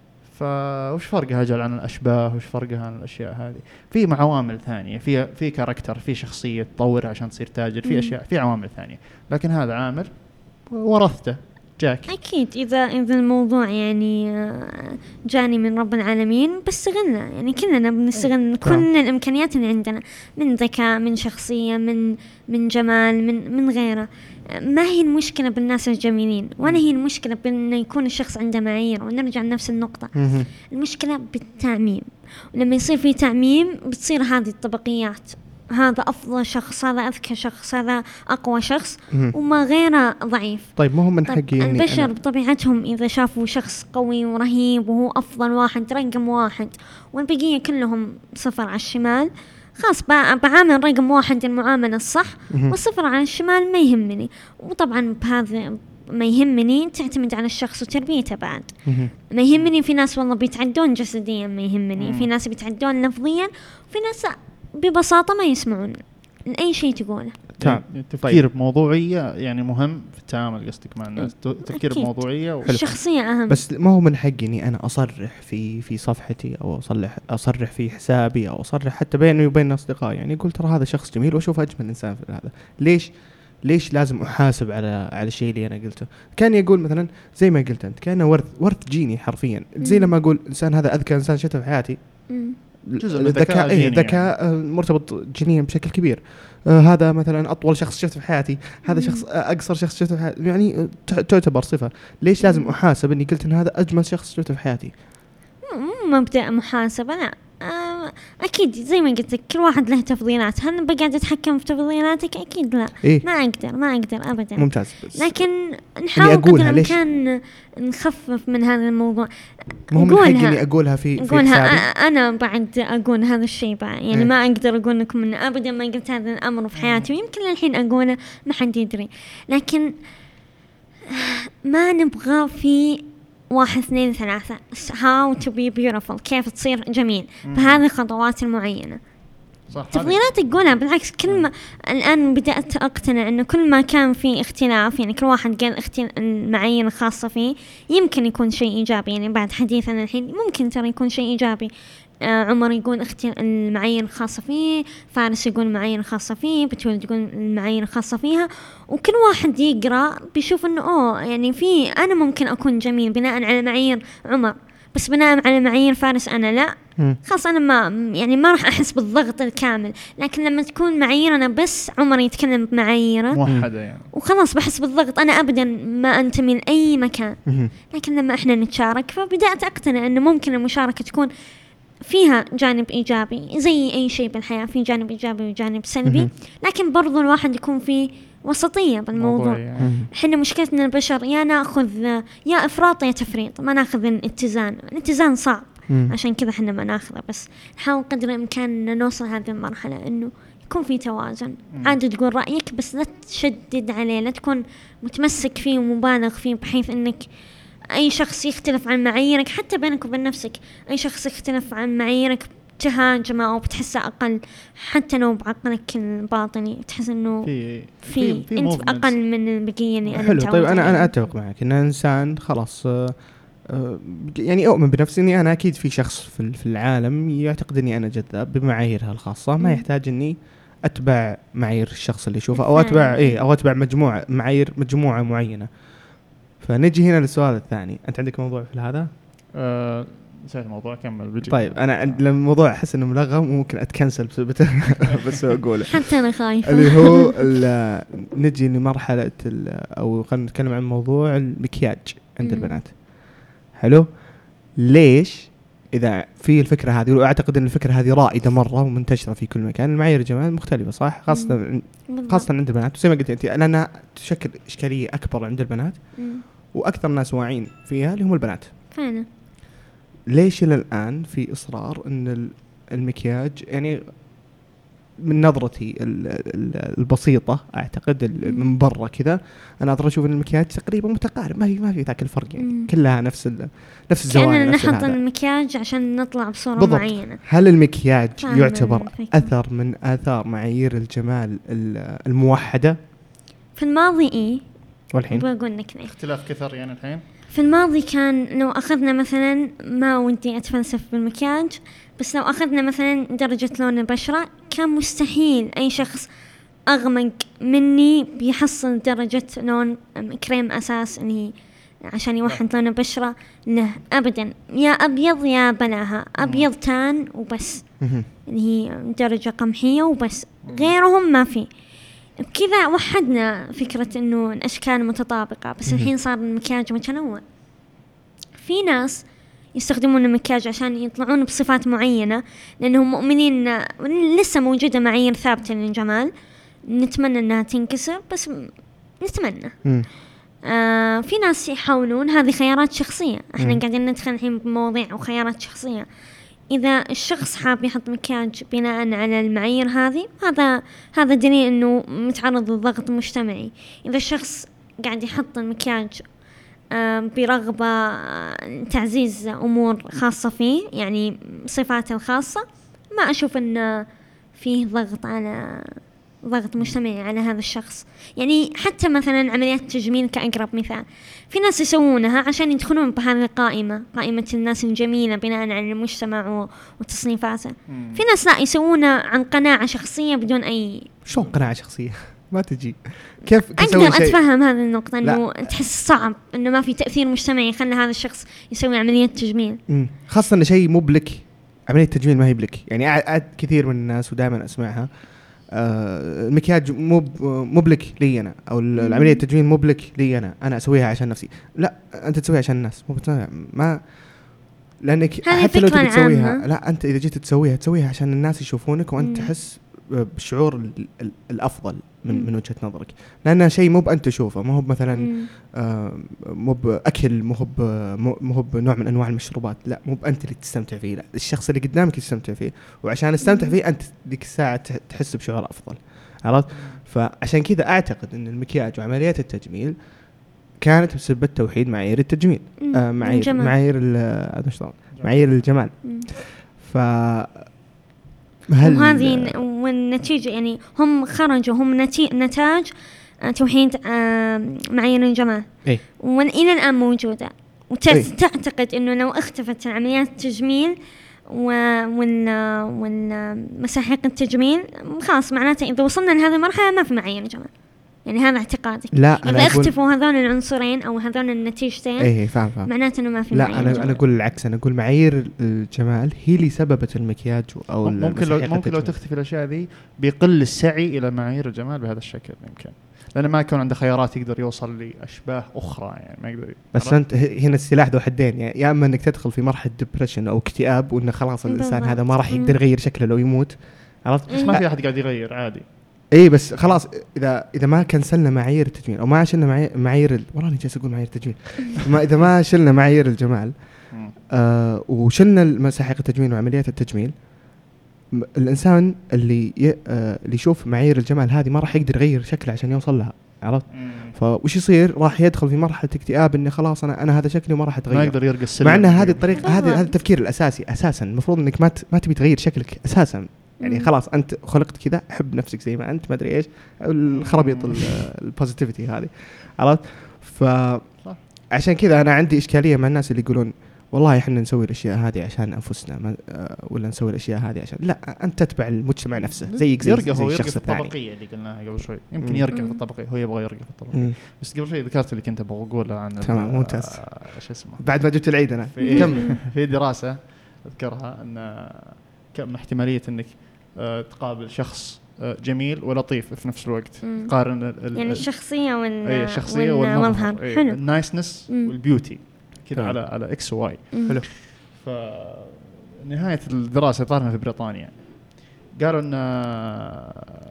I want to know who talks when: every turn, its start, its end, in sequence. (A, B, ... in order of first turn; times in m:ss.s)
0:00.2-0:12.1 A
0:07.8-0:08.2 B
0:12.1-0:30.1 B
0:30.1-0:30.5 C
0:30.7-1:07.4 B
0:40.8-0:42.1 C
0:52.5-0:52.8 C
0:58.8-0:59.1 C
1:02.0-1:02.3 A
1:07.6-1:08.4 C
1:07.6-1:12.9 A
1:11.2-1:13.6 B
1:12.6-1:44.9 C
1:29.8-1:30.1 B
1:32.3-1:32.6 B
1:33.0-1:34.3 A
1:38.8-1:39.2 B
1:42.4-1:42.7 B
1:45.7-1:59.3 B
1:54.6-1:55.4 C
1:56.1-1:57.0 C
1:59.8-2:09.9 B
1:59.9-2:01.8 C
2:06.8-2:07.1 A
2:11.1-2:19.0 B
2:17.4-2:17.8 A
2:19.7-2:20.2 A
2:19.9-2:31.7 B
2:32.2-2:53.4 B
2:53.3-2:54.1 A
2:54.1-3:01.3 B
2:57.4-2:57.7 C
3:02.0-3:27.3 B
3:09.2-3:09.9 A
3:09.8-3:10.1 C
3:27.9-3:37.5 B
3:37.4-3:39.1 A
3:38.0-3:41.1 B
3:40.1-3:59.1 C
3:52.5-3:53.4 B
3:59.6-4:02.2 A
4:01.5-4:06.1 C
4:05.9-4:07.3 B
4:06.6-4:28.7 C
4:12.4-4:12.7 B
4:21.3-4:22.5 B
4:26.2-4:26.4 B
4:28.9-4:29.2 B
4:30.3-4:34.2 C
4:35.2-4:45.2 C
4:42.6-4:42.9 B
4:44.3-4:47.4 B
4:46.8-4:53.0 C
4:48.4-4:49.5 B
4:53.8-4:54.6 B
4:55.1-4:55.4 C
4:55.3-4:56.1 B
4:56.0-4:57.2 A
4:57.5-5:06.3 B
5:06.9-5:11.5 B
5:12.1-5:17.9 B
5:16.4-5:16.7 A
5:18.0-5:18.3 C
5:18.4-5:21.7 B
5:20.6-5:20.9 A
5:22.4-5:27.4 B
5:28.6-5:36.3 B
5:36.8-5:39.8 B
5:40.6-5:46.0 B
5:46.7-5:56.3 B
5:56.9-6:21.1 B
6:17.9-6:18.2 A
6:21.2-6:24.4 C
6:23.8-6:29.8 B
6:25.2-6:25.7 C
6:29.9-7:09.9 C
6:39.0-6:39.4 B
6:45.4-6:46.6 B
6:49.2-6:49.5 B
6:55.2-6:55.5 B
7:03.4-7:03.7 B
7:06.7-7:07.0 A
7:10.8-7:17.8 C
7:12.8-7:13.7 B
7:18.7-7:19.5 C
7:18.8-7:22.9 B
7:23.4-7:30.9 B
7:31.5-7:37.7 B
7:38.2-7:44.2 B
7:39.1-7:39.9 C
7:42.2-7:42.9 C
7:43.5-7:49.2 C
7:43.8-7:44.1 A
7:48.0-7:57.2 A
7:56.9-8:04.8 C
8:01.6-8:02.7 B
8:04.6-8:05.8 A
8:06.3-8:17.5 C
8:18.3-8:51.1 C
8:23.9-8:24.4 A
8:28.1-8:29.5 A
8:29.6-8:30.1 B
8:33.8-8:34.1 B
8:37.4-8:38.1 A
8:49.4-9:08.5 A
8:52.7-8:53.0 B
8:56.4-8:59.5 C
8:59.0-8:59.3 B
9:07.2-9:11.9 B
9:09.2-9:20.4 A
9:12.9-9:13.2 C